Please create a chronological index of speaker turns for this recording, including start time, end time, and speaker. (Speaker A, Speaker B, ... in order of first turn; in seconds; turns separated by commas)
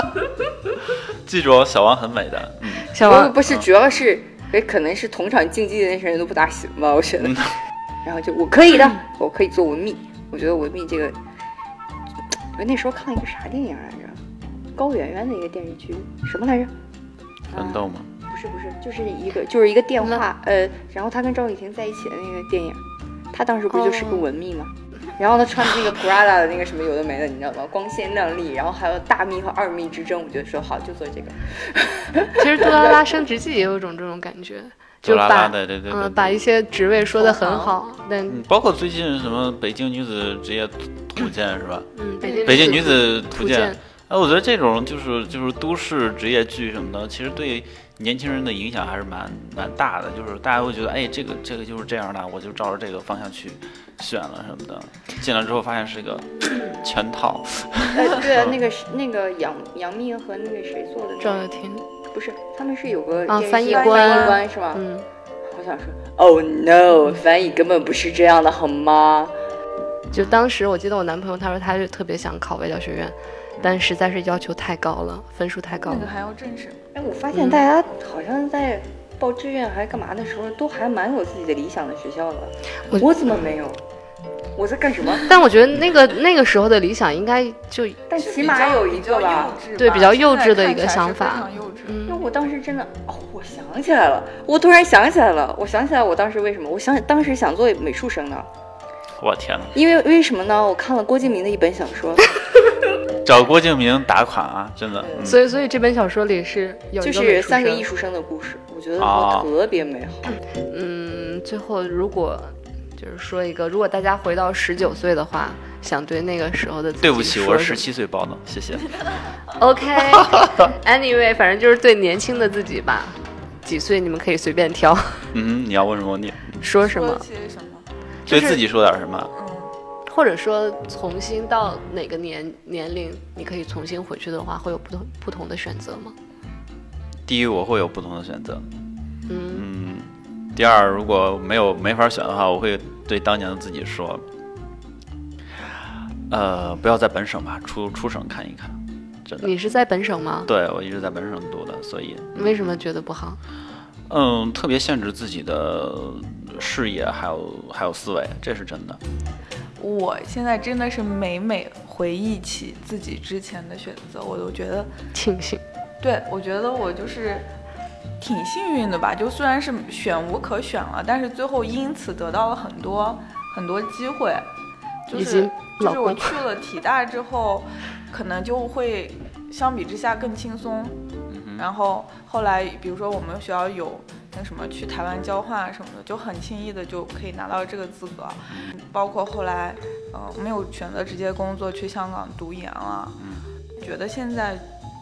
Speaker A: 1.2-2.9, Speaker B: 2.9-3.4, Speaker C: 3.0-7.5, Speaker A: 7.2-7.5, Speaker C: 8.0-11.2, Speaker C: 12.5-14.2, Speaker C: 14.7-16.7, Speaker C: 17.5-22.8, Speaker A: 17.5-18.1, Speaker C: 23.3-33.0, Speaker B: 23.7-24.2, Speaker B: 32.4-38.4, Speaker A: 35.0-36.4, Speaker D: 37.2-37.7, Speaker A: 38.3-41.9, Speaker B: 41.9-43.8, Speaker A: 42.4-58.5, Speaker C: 57.9-61.5, Speaker B: 61.2-61.8, Speaker C: 62.1-64.8, Speaker B: 63.3-65.0, Speaker D: 63.6-64.3, Speaker C: 65.5-69.3, Speaker B: 70.1-76.1, Speaker D: 75.8-76.9, Speaker C: 76.9-83.8, Speaker C: 84.5-85.3, Speaker B: 85.2-88.0, Speaker C: 88.1-89.6, Speaker D: 88.2-92.0, Speaker B: 89.8-92.2, Speaker C: 92.1-98.5, Speaker A: 99.2-99.8, Speaker C: 99.7-102.3, Speaker A: 103.2-105.4, Speaker C: 105.0-105.3, Speaker B: 105.2-107.8, Speaker C: 107.0-110.3, Speaker A: 109.0-109.5, Speaker B: 110.7-117.8, Speaker A: 117.0-118.9, Speaker B: 119.6-125.3, Speaker A: 125.3-126.6, Speaker B: 126.6-127.2, Speaker D: 126.8-127.9, Speaker A: 128.3-129.3, Speaker B: 128.3-128.6, Speaker D: 129.3-129.7, Speaker B: 130.1-136.1, Speaker A: 137.3-138.7, Speaker B: 139.3-139.7, Speaker A: 139.5-144.2, Speaker A: 146.3-149.5, Speaker B: 149.4-150.5, Speaker A: 150.5-152.8, Speaker B: 152.3-153.4, Speaker A: 154.1-159.0, Speaker D: 159.8-164.9, Speaker B: 165.1-165.6, Speaker D: 166.0-167.5, Speaker D: 168.2-174.5, Speaker D: 175.1-181.0, Speaker B: 175.1-176.4, Speaker A: 181.3-181.6, Speaker D: 181.6-193.2, Speaker A: 193.2-193.4, Speaker D: 193.8-194.7